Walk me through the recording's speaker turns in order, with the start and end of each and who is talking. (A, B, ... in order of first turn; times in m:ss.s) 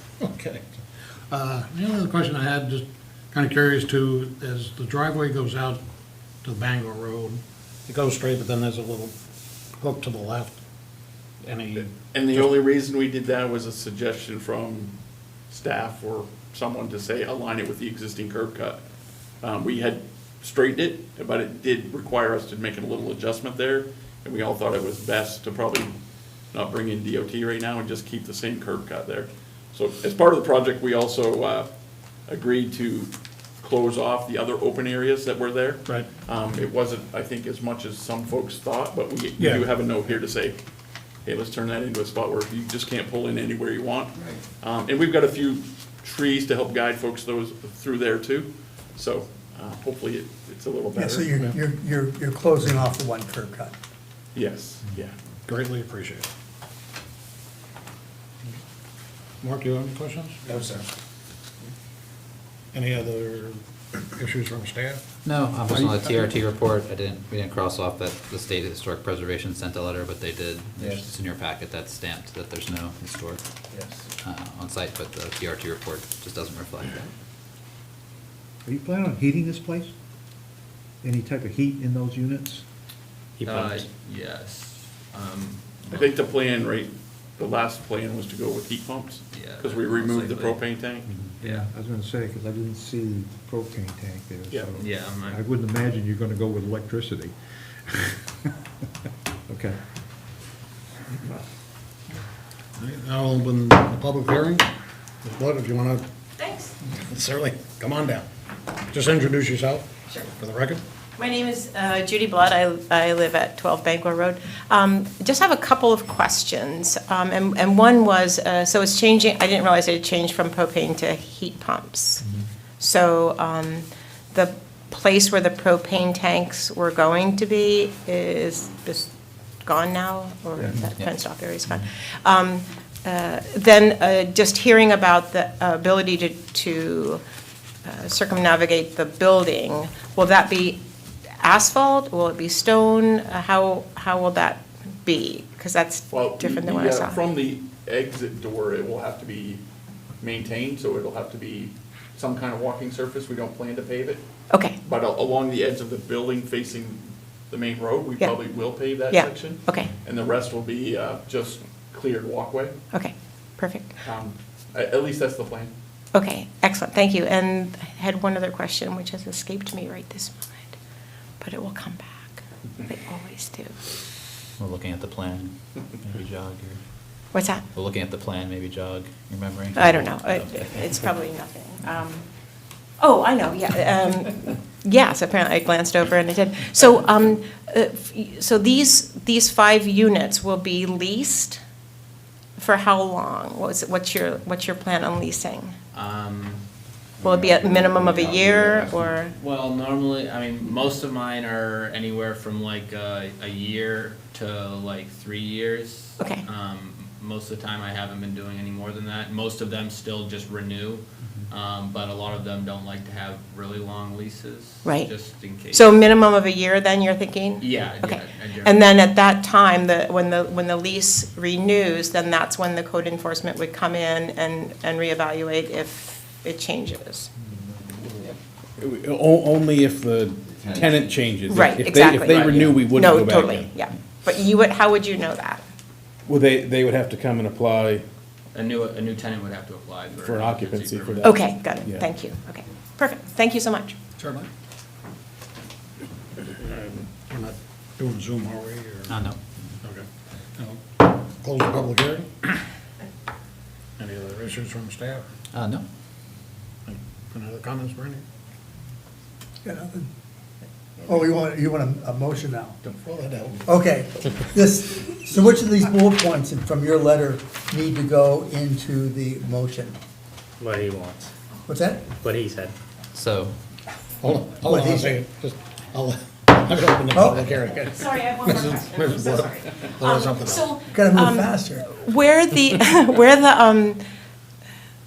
0:00.2-0:00.7 A
0:01.3-0:05.8 A
0:06.4-0:09.2 A
0:09.8-0:10.6 A
0:11.4-0:12.5 A
0:12.1-0:14.9 B
0:15.5-0:18.8 B
0:19.4-0:26.0 B
0:26.5-0:31.7 B
0:32.3-0:40.6 B
0:39.4-0:39.6 A
0:41.2-0:51.3 B
0:51.0-0:53.7 C
0:54.4-0:55.1 B
0:55.5-0:56.3 A
0:59.4-1:00.8 A
1:02.7-1:05.0 A
1:05.2-1:13.4 D
1:14.2-1:17.1 D
1:18.7-1:19.9 E
1:21.0-1:22.6 E
1:23.4-1:23.9 F
1:23.4-1:26.1 G
1:25.9-1:31.1 B
1:29.3-1:30.6 G
1:31.2-1:37.4 E
1:34.8-1:35.4 G
1:37.9-1:38.2 E
1:39.5-1:39.8 E
1:42.8-1:44.7 A
1:45.2-1:46.0 A
1:46.4-1:46.7 H
1:46.8-1:48.3 A
1:48.9-1:50.8 A
1:51.2-2:02.2 H
2:02.8-2:09.1 H
2:09.6-2:17.2 H
2:10.6-2:10.9 E
2:17.8-2:20.8 H
2:21.4-2:27.2 H
2:26.1-2:29.6 B
2:30.2-2:34.2 B
2:34.5-2:34.8 H
2:34.8-2:42.7 B
2:39.1-2:39.9 H
2:42.9-2:44.0 H
2:44.0-2:45.7 B
2:46.1-2:50.8 H
2:51.4-2:53.8 H
2:54.6-2:56.8 D
2:57.3-2:57.6 H
2:57.7-3:01.0 D
2:59.8-3:02.3 H
3:03.0-3:11.6 H
3:12.6-3:15.8 H
3:15.9-3:16.6 G
3:17.2-3:19.1 F
3:17.2-3:19.3 H
3:18.3-3:18.6 G
3:19.4-3:36.0 G
3:34.9-3:35.1 H
3:35.7-3:47.3 H
3:37.6-3:38.9 G
3:48.8-3:53.8 I
3:51.5-3:55.6 H
3:56.3-3:58.0 I
3:58.5-4:01.4 G
4:00.2-4:02.1 I
4:01.2-4:04.0 H
4:04.2-4:04.5 A
4:06.7-4:09.2 A
4:09.1-4:09.7 D
4:09.8-4:12.6 A
4:14.0-4:15.3 A
4:15.5-4:15.8 D
4:16.9-4:18.2 A
4:19.6-4:20.1 C
4:21.0-4:22.8 C
4:22.8-4:23.7 A
4:23.6-4:30.0 C
4:30.6-4:31.3 F
4:31.7-4:32.1 C
4:32.2-4:32.7 F
4:33.1-4:33.6 D
4:34.2-4:40.7 A
4:34.7-4:35.2 C
4:37.1-4:37.5 C
4:38.0-4:44.0 H
4:40.9-4:41.9 C